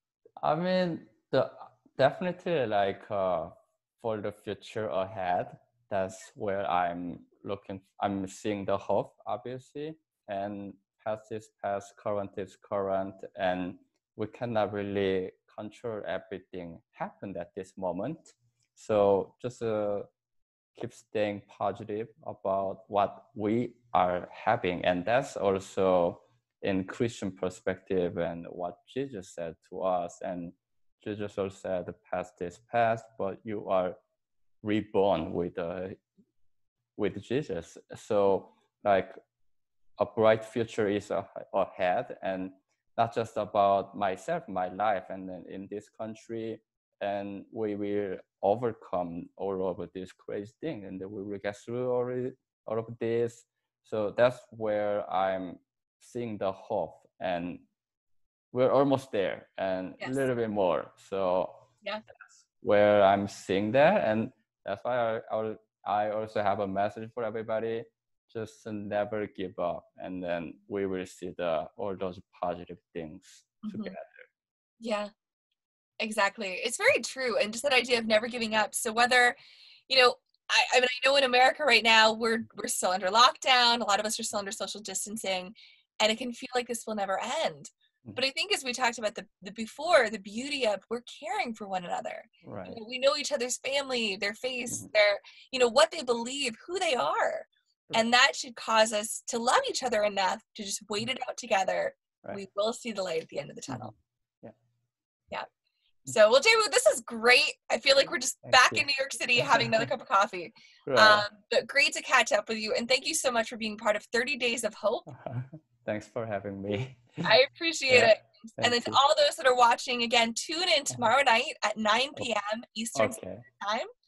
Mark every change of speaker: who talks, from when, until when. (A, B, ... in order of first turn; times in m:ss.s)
0:00.4-0:20.1 A
0:20.7-0:34.0 A
0:34.6-0:36.0 A
0:37.0-0:39.2 A
0:40.0-0:57.6 A
0:58.5-1:01.6 A
1:00.0-1:00.3 B
1:02.4-1:14.2 A
1:13.6-1:14.0 B
1:14.8-1:15.1 B
1:16.0-1:43.9 B
1:32.4-1:32.8 A
1:43.7-1:44.5 A
1:46.0-1:55.0 B
1:48.5-1:48.8 A
1:49.4-1:49.8 A
1:50.8-1:51.3 A
1:55.1-1:57.3 A
1:57.2-2:03.9 B
1:57.9-1:59.0 A
2:02.9-2:03.4 A